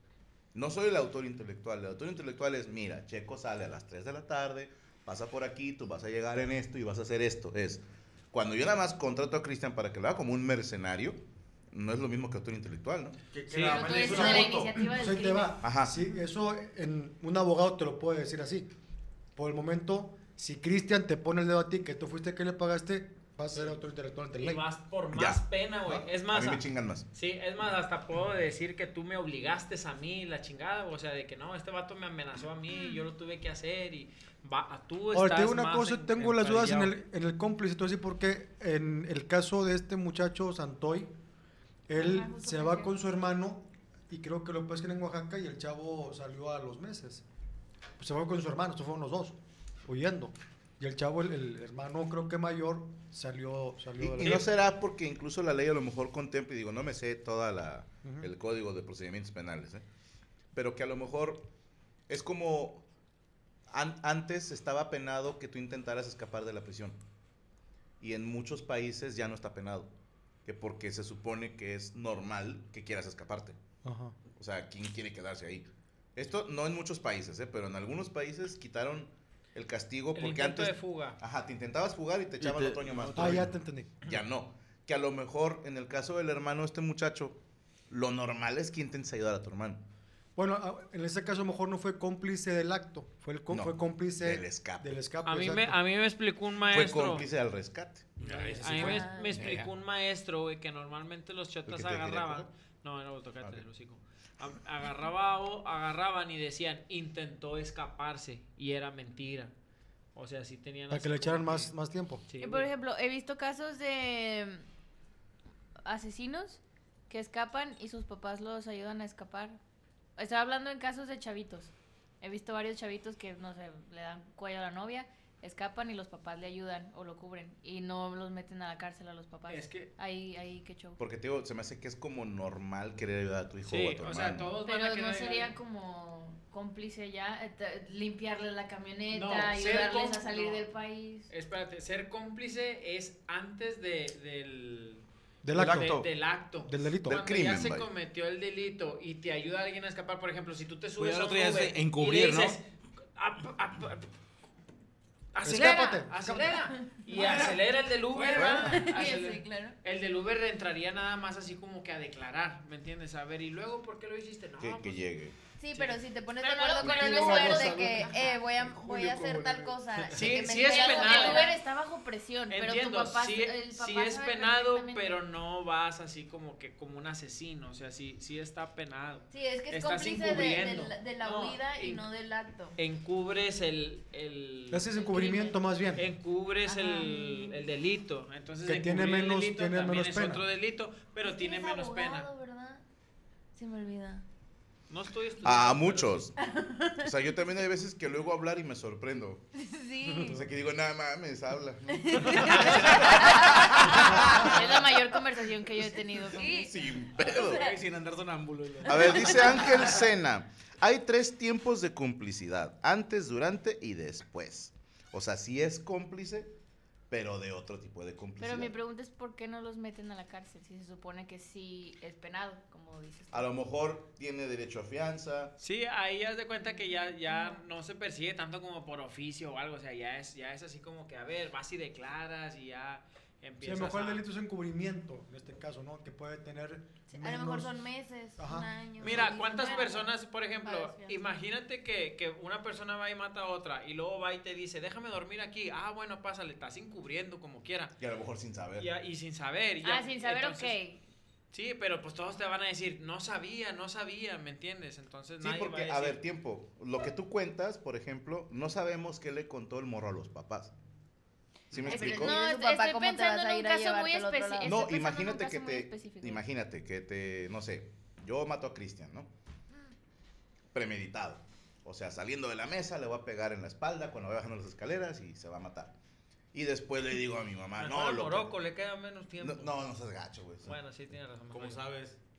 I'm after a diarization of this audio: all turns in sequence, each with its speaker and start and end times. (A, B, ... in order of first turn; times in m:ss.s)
0:00.5-0:11.2 A
0:11.7-0:13.2 A
0:13.3-0:14.8 B
0:13.5-0:14.1 C
0:13.6-0:15.6 D
0:13.9-0:18.7 E
0:15.6-0:16.0 A
0:19.4-0:24.6 E
0:24.4-0:36.9 C
0:25.1-0:27.0 A
0:35.1-0:41.1 E
0:41.9-0:47.2 E
0:42.0-0:42.9 D
0:48.0-0:54.5 E
0:54.0-0:59.8 A
0:58.0-0:58.3 E
1:00.5-1:01.5 A
1:02.1-1:02.8 A
1:03.7-1:07.0 A
1:08.0-1:09.9 A
1:10.4-1:13.6 A
1:13.8-1:14.2 E
1:14.4-1:29.8 A
1:20.1-1:21.2 C
1:22.4-1:23.5 B
1:23.1-1:23.9 E
1:30.4-1:35.8 E
1:33.5-1:35.0 A
1:35.2-1:37.2 C
1:36.7-1:38.1 A
1:38.2-1:39.6 F
1:38.2-1:49.5 C
1:38.7-1:39.4 G
1:39.3-1:39.7 A
1:41.7-1:42.5 A
1:50.1-1:51.7 C
1:50.9-1:52.2 E
1:52.3-1:52.7 C
1:52.4-1:54.7 D
1:55.8-1:59.6 D
2:00.2-2:11.0 D
2:09.5-2:09.9 C
2:11.0-2:14.5 A
2:13.6-2:15.5 C
2:14.6-2:21.3 D
2:19.1-2:20.6 C
2:21.3-2:25.0 C
2:25.4-2:26.0 E
2:25.5-2:26.0 B
2:25.6-2:32.6 C
2:26.6-2:27.2 E
2:27.0-2:27.9 A
2:31.0-2:32.6 F
2:33.1-2:34.1 C
2:35.3-2:45.0 C
2:35.4-2:36.6 E
2:37.2-2:37.5 F
2:38.2-2:38.4 F
2:38.3-2:39.8 G
2:44.6-2:45.4 A
2:45.6-2:51.6 G
2:45.7-2:48.0 C
2:46.4-2:48.4 D
2:46.8-2:49.8 E
2:50.0-2:51.5 C
2:50.4-2:55.2 D
2:52.5-3:02.0 C
2:59.3-3:02.8 G
3:02.8-3:05.0 C
3:04.7-3:06.1 E
3:05.1-3:05.5 D
3:06.0-3:12.3 C
3:06.7-3:07.6 G
3:08.6-3:10.4 E
3:11.2-3:12.8 G
3:13.5-3:14.2 G
3:14.9-3:16.3 C
3:15.4-3:16.3 A
3:16.4-3:17.1 G
3:17.0-3:19.4 A
3:19.6-3:20.4 G
3:20.3-3:24.7 A
3:21.9-3:24.5 G
3:24.2-3:26.6 D
3:26.2-3:27.8 G
3:26.4-3:27.7 A
3:27.2-3:29.7 F
3:28.8-3:36.5 A
3:29.0-3:29.5 G
3:37.1-3:38.7 A
3:38.4-3:43.5 D
3:43.3-3:45.6 A
3:45.6-3:54.2 C
3:53.6-3:57.8 E
3:57.1-4:00.0 G
3:58.4-3:59.5 E
3:59.0-4:07.9 C
4:00.6-4:01.2 G
4:08.0-4:08.9 A
4:08.8-4:10.7 C
4:09.8-4:11.0 D
4:11.5-4:16.2 C
4:15.4-4:20.7 A
4:21.7-4:22.3 A
4:21.7-4:24.7 G
4:21.8-4:26.4 D
4:24.6-4:29.3 A
4:30.7-4:35.9 A
4:36.5-4:38.5 A
4:37.8-4:39.9 C
4:39.4-4:40.7 A
4:40.6-4:41.8 C
4:41.5-4:42.2 F